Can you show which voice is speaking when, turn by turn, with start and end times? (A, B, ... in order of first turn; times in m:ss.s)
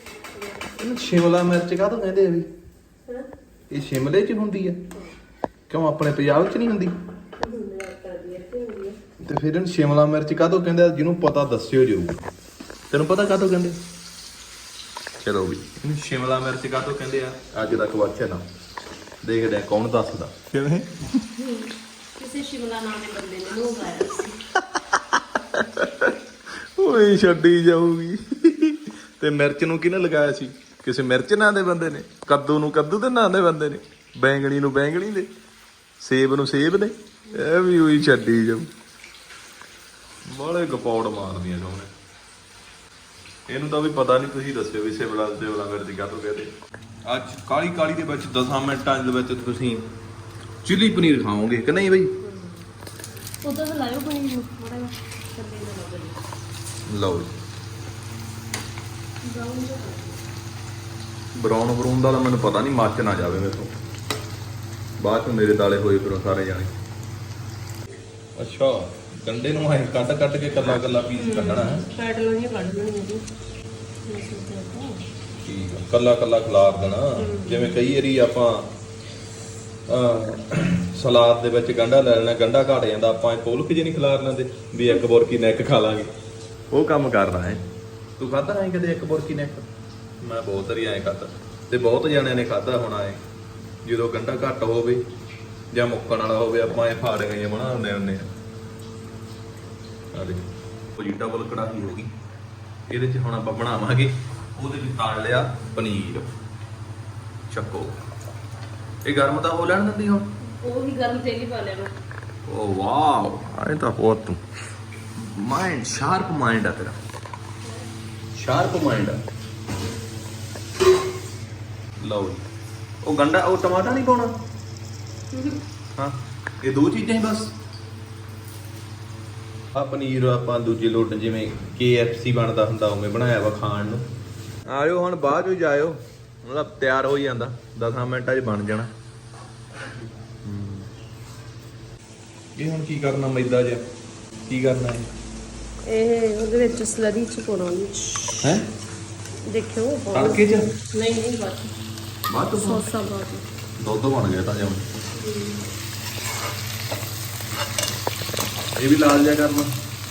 0:00.3-0:00.8 A
0:00.8-0:02.5 B
0:03.7-0:04.8 B
0:05.7-0:06.9 B
0:07.4-0:09.0 A
0:09.2-0:12.2 B
0:12.9-0:13.8 B
0:15.2-0:18.4 B
0:19.2-0:21.2 B
0:21.4-0:24.4 A
0:24.7-0:26.2 B
0:26.8-0:35.3 B
0:36.0-0:38.7 B
0:40.3-0:41.9 B
0:43.5-0:46.5 B
0:47.0-0:49.9 B
0:50.6-0:52.2 B
0:52.2-0:52.6 A
0:53.4-0:56.2 A
0:56.9-0:57.3 B
0:59.2-1:00.2 A
1:01.4-1:03.7 B
1:05.0-1:06.7 B
1:08.4-1:11.9 B
1:11.2-1:13.3 A
1:14.0-1:15.1 A
1:15.4-1:18.7 B
1:17.2-1:17.8 A
1:19.9-1:26.1 B
1:26.7-1:27.6 B
1:28.2-1:29.7 B
1:30.2-1:33.2 B
1:33.8-1:35.0 B
1:35.7-1:38.3 B
1:40.1-1:42.1 B
1:42.9-1:46.3 B
1:47.5-1:48.0 B
1:49.0-1:50.3 B
1:50.4-1:51.9 A
1:52.5-1:54.4 B
1:55.2-1:57.0 B
1:57.6-1:57.9 A
1:58.3-1:59.2 B
2:02.0-2:02.5 B
2:03.0-2:04.3 B
2:05.3-2:05.6 A
2:06.0-2:07.5 B
2:09.7-2:14.1 B
2:14.7-2:18.9 B
2:20.4-2:20.9 B
2:22.6-2:23.8 B
2:24.5-2:25.1 B
2:25.8-2:28.5 A
2:28.4-2:28.7 B
2:29.5-2:31.7 A
2:30.1-2:30.7 B
2:32.3-2:32.9 B
2:32.6-2:33.5 A
2:33.8-2:34.9 B
2:35.2-2:35.7 A
2:38.8-2:39.7 B